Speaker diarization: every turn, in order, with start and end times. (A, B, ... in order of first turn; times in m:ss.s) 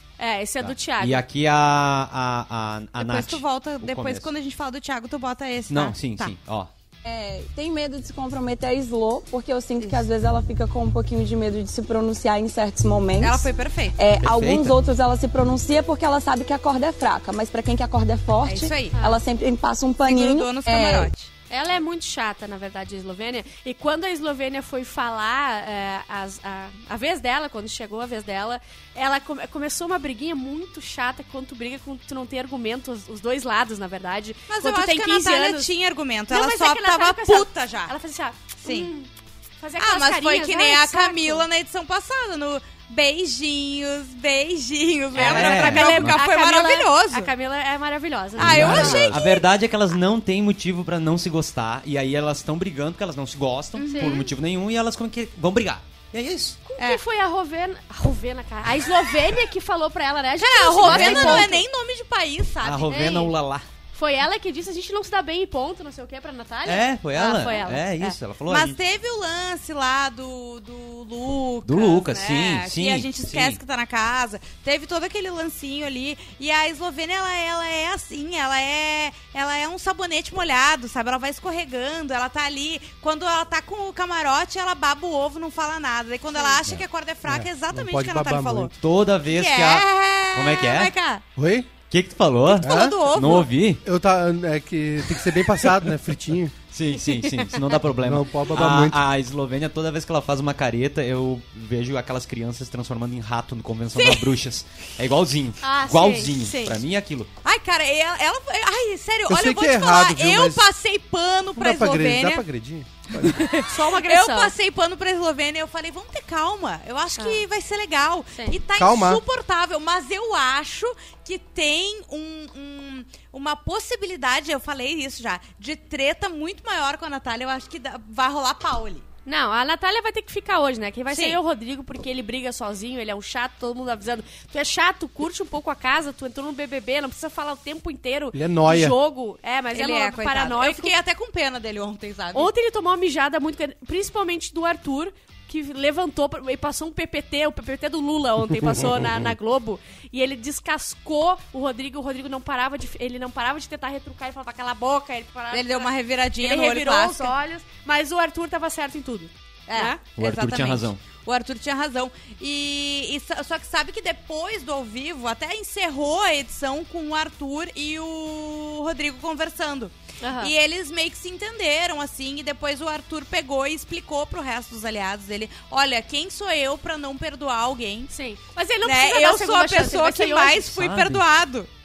0:00.2-0:01.2 A
0:00.6-0:04.3 B
0:03.0-0:06.3 C
0:05.7-0:06.7 B
0:07.0-0:21.1 D
0:13.2-0:14.0 C
0:14.2-0:14.8 B
0:18.4-0:19.0 C
0:19.0-0:19.2 A
0:20.0-0:21.3 C
0:21.5-0:35.7 A
0:34.5-0:37.9 C
0:36.3-0:39.1 A
0:38.6-0:38.9 C
0:39.6-0:41.5 A
0:39.8-0:47.3 C
0:45.1-0:49.3 A
0:45.1-0:46.2 B
0:48.4-0:49.4 C
0:48.4-0:56.6 B
0:53.8-0:54.3 C
0:53.8-0:54.2 A
0:56.7-1:01.6 A
1:00.4-1:03.3 C
1:00.8-1:01.5 B
1:02.6-1:03.7 B
1:02.9-1:03.3 A
1:04.0-1:08.2 A
1:06.6-1:08.8 B
1:08.5-1:28.7 C
1:11.6-1:13.6 B
1:27.2-1:28.7 E
1:28.8-1:30.9 B
1:29.3-1:31.2 C
1:31.4-1:31.7 E
1:31.9-1:33.8 B
1:32.5-1:33.5 C
1:32.6-1:33.1 E
1:33.8-1:36.5 E
1:36.7-1:47.3 B
1:37.0-1:37.5 A
1:38.0-1:39.0 E
1:44.0-1:44.3 C
1:45.6-1:46.8 A
1:47.4-1:52.5 C
1:49.3-1:50.6 E
1:51.6-1:53.4 E
1:53.1-2:09.1 C
1:53.6-1:54.6 A
1:57.2-1:57.4 A
1:58.3-1:58.6 A
1:58.8-1:59.2 E
2:09.3-2:20.9 A
2:11.1-2:11.4 C
2:18.3-2:19.0 E
2:19.7-2:22.5 C
2:22.3-2:40.0 A
2:35.5-2:37.3 C
2:39.7-2:58.1 C
2:40.2-2:41.0 B
2:50.2-2:50.5 A
2:58.1-3:00.7 A
2:58.8-3:01.7 C
3:00.7-3:01.2 B